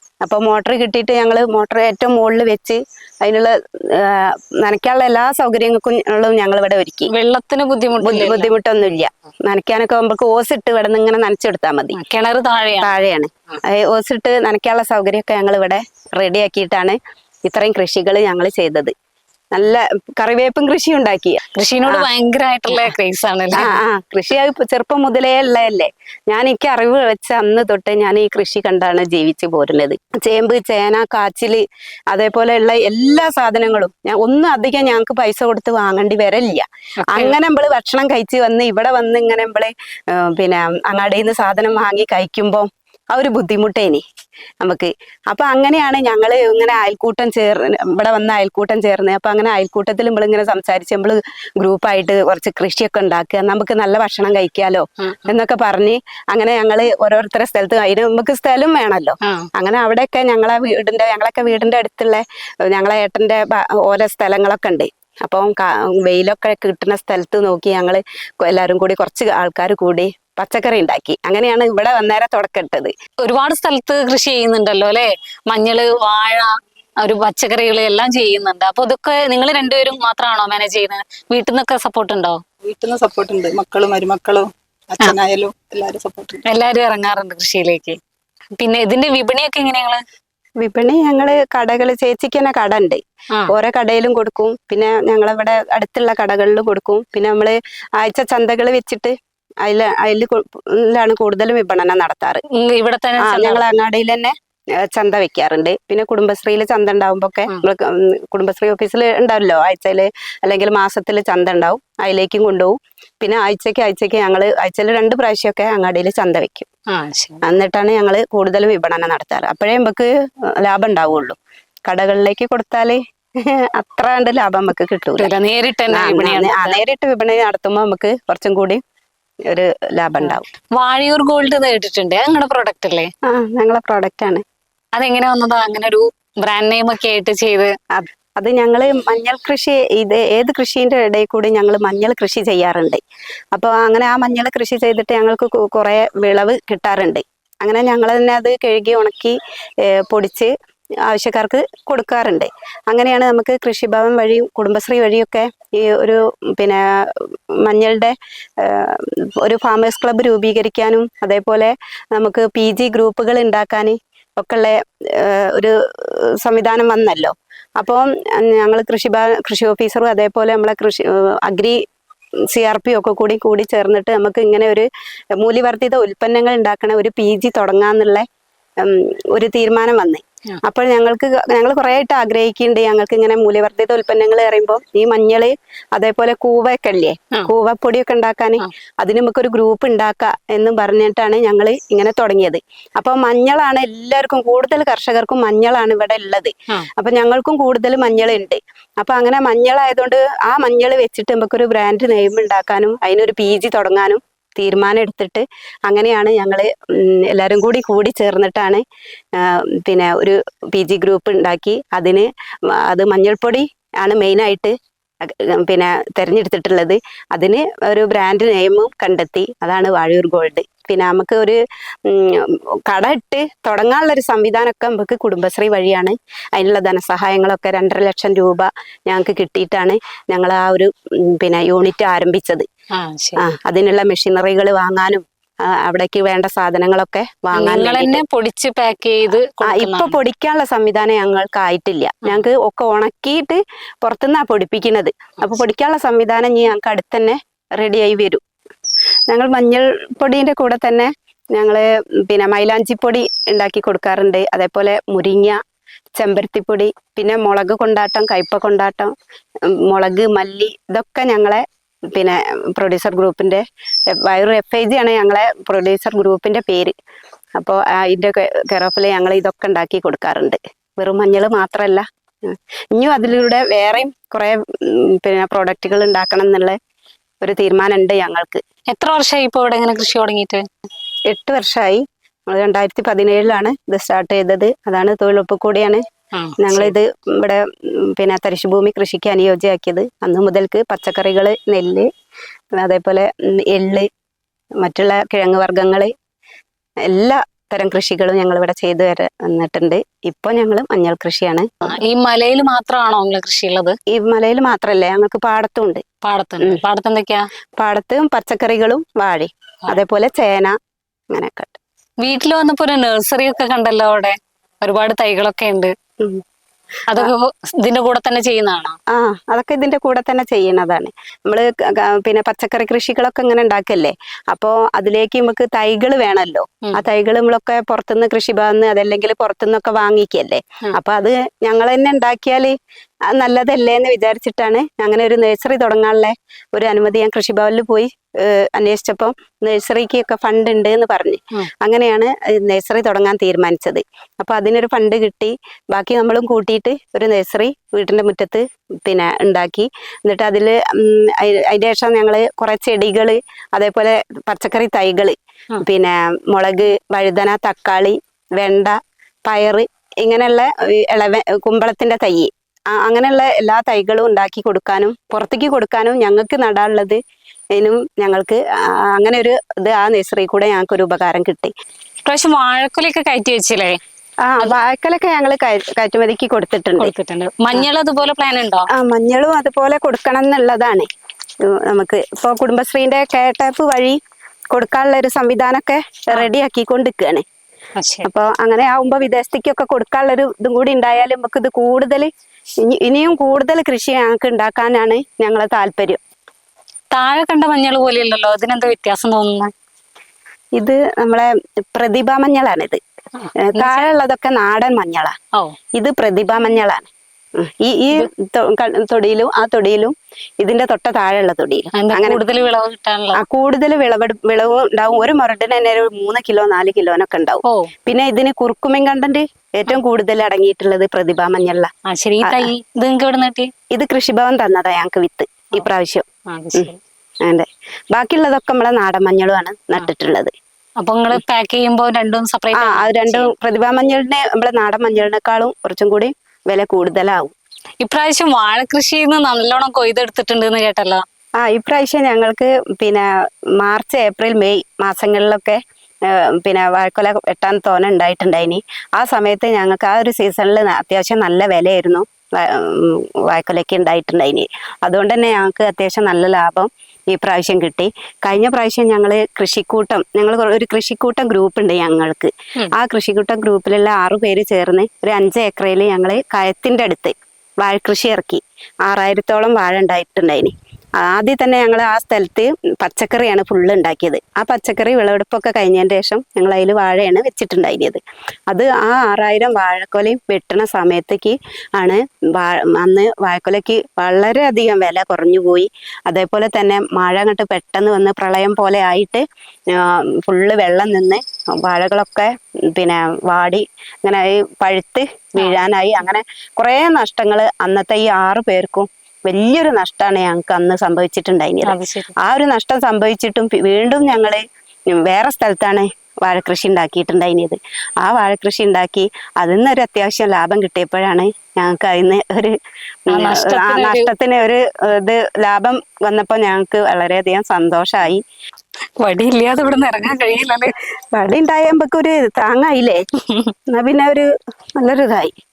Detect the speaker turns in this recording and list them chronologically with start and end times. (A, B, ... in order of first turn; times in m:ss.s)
0:00.2-0:07.1 A
0:07.1-0:08.5 B
0:08.0-0:12.0 A
0:11.9-0:12.9 B
0:12.8-0:18.9 A
0:19.5-0:22.1 A
0:21.6-0:23.8 B
0:22.7-0:22.9 A
0:23.5-0:44.0 A
0:37.0-0:37.4 B
0:44.6-1:12.9 A
0:55.0-0:55.3 B
1:13.2-1:22.4 B
1:22.6-1:26.4 C
1:26.4-1:28.0 B
1:28.6-1:30.0 B
1:30.6-1:42.4 A
1:42.5-1:43.8 B
1:43.2-1:56.7 A
1:56.9-1:57.4 B
1:57.4-2:00.1 A
2:00.6-2:01.4 A
2:01.9-2:05.3 A
2:05.2-2:06.8 B
2:05.9-2:08.8 A
2:09.5-2:10.4 A
2:10.2-2:13.1 B
2:13.3-2:14.4 A
2:15.0-2:17.7 B
2:17.9-2:23.0 A
2:23.6-2:30.5 A
2:31.1-2:51.8 A
2:52.5-2:54.9 A
2:55.4-2:58.3 A
2:58.8-3:28.8 A
3:29.4-3:52.7 A
3:53.0-3:53.5 B
3:53.4-3:58.2 A
3:57.5-4:00.2 B
3:59.6-4:08.4 A
4:09.3-4:15.6 A
4:16.2-4:19.1 A
4:19.7-4:26.9 A
4:27.6-4:36.8 A
4:37.4-4:38.6 A
4:38.9-4:40.6 B
4:41.3-4:46.0 A
4:46.3-4:47.0 B
4:46.6-4:52.1 A
4:52.8-4:54.1 A
4:54.8-4:56.1 A
4:57.1-5:01.7 A
5:01.8-5:04.0 B
5:04.1-5:06.0 A
5:06.2-5:07.5 B
5:07.8-5:10.8 A
5:11.3-5:11.8 A
5:12.2-5:15.9 B
5:17.1-5:19.0 B
5:19.1-5:32.8 A
5:33.3-6:07.2 A
6:07.8-6:11.7 A
6:12.3-6:14.0 B
6:14.4-6:17.1 A
6:17.0-6:18.9 B
6:18.9-6:21.1 A
6:21.7-6:24.2 A
6:24.7-6:27.4 A
6:28.0-6:28.3 B
6:28.2-6:32.3 A
6:32.8-6:36.2 A
6:37.1-6:39.7 B
6:40.8-6:43.0 A
6:43.4-6:44.1 B
6:43.6-6:45.4 A
6:46.0-6:52.4 A
6:51.9-6:53.4 B
6:53.4-7:01.9 A
7:02.1-7:03.7 B
7:02.4-7:02.7 A
7:03.9-7:06.9 A
7:06.5-7:07.0 B
7:07.4-7:10.5 A
7:11.0-7:13.5 B
7:12.7-7:17.6 A
7:18.0-7:21.2 B
7:21.6-8:32.8 A
8:21.8-8:22.4 B
8:33.3-8:34.3 B
8:33.3-8:38.4 A
8:39.2-8:41.0 B
8:41.3-8:43.2 A
8:43.9-8:45.5 A